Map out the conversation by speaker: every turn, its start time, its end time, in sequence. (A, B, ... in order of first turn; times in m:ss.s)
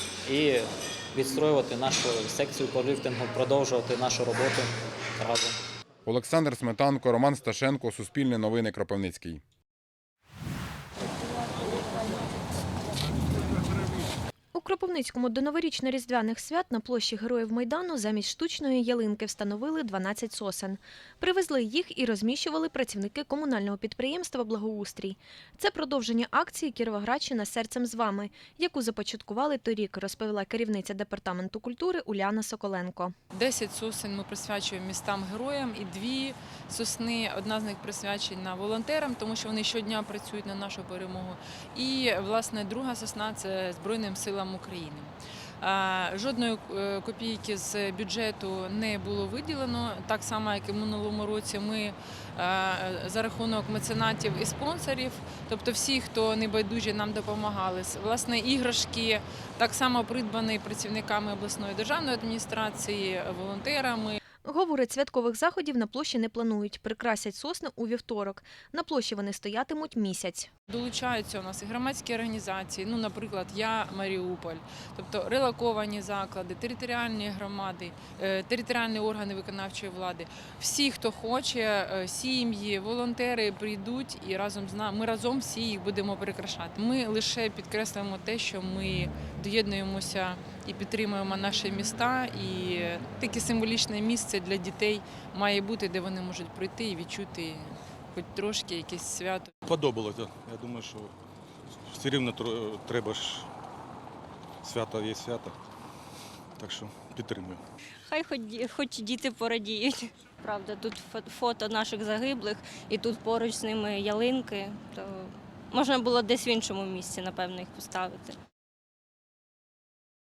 0:00.2-0:05.6 A
0:06.0-0:09.4 B
0:14.5-0:33.1 C
0:33.4-1:04.2 D
1:04.4-1:10.5 C
1:10.7-1:39.5 D
1:39.7-1:41.1 E
1:41.9-1:43.4 E
1:44.6-1:45.5 E
1:46.6-1:47.6 E
1:48.1-1:58.4 F